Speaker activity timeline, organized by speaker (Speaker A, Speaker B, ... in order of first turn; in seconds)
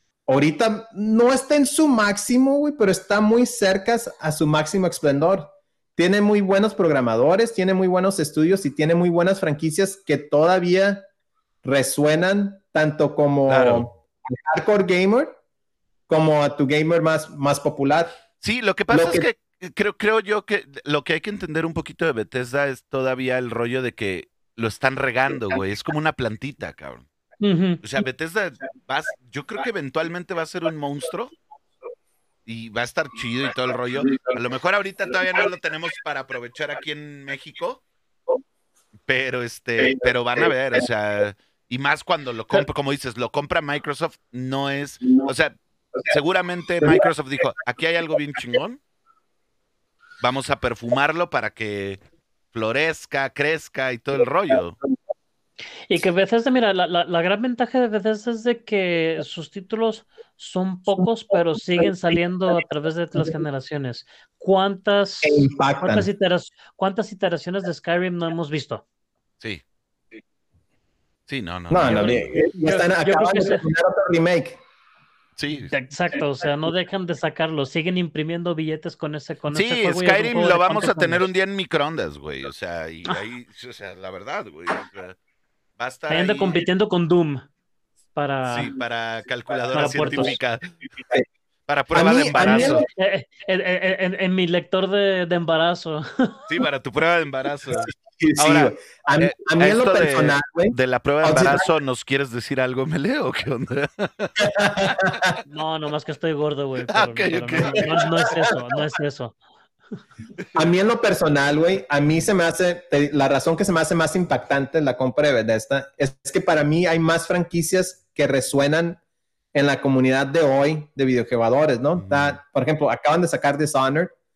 Speaker A: 0.3-11.0, 11.6-15.4, 16.1-18.1, 18.9-19.3, 65.2-66.1, 71.7-74.6, 91.9-92.8, 97.8-101.6, 104.4-105.3, 107.6-108.4, 110.5-119.0, 119.5-124.1
Speaker B: 13.5-13.9, 18.4-27.1, 27.8-31.3, 32.5-37.8, 39.1-48.8, 50.2-52.0, 52.5-54.8, 71.3-72.2, 75.4-75.7, 79.5-85.2, 85.8-86.6, 88.4-90.7, 91.7-92.9, 96.5-105.0, 106.9-108.0, 122.0-122.4
Speaker C: 27.4-27.8, 55.9-68.8, 71.8-73.6, 75.7-81.2, 86.1-87.5, 88.1-88.7, 89.7-90.3, 92.4-96.4, 105.5-109.3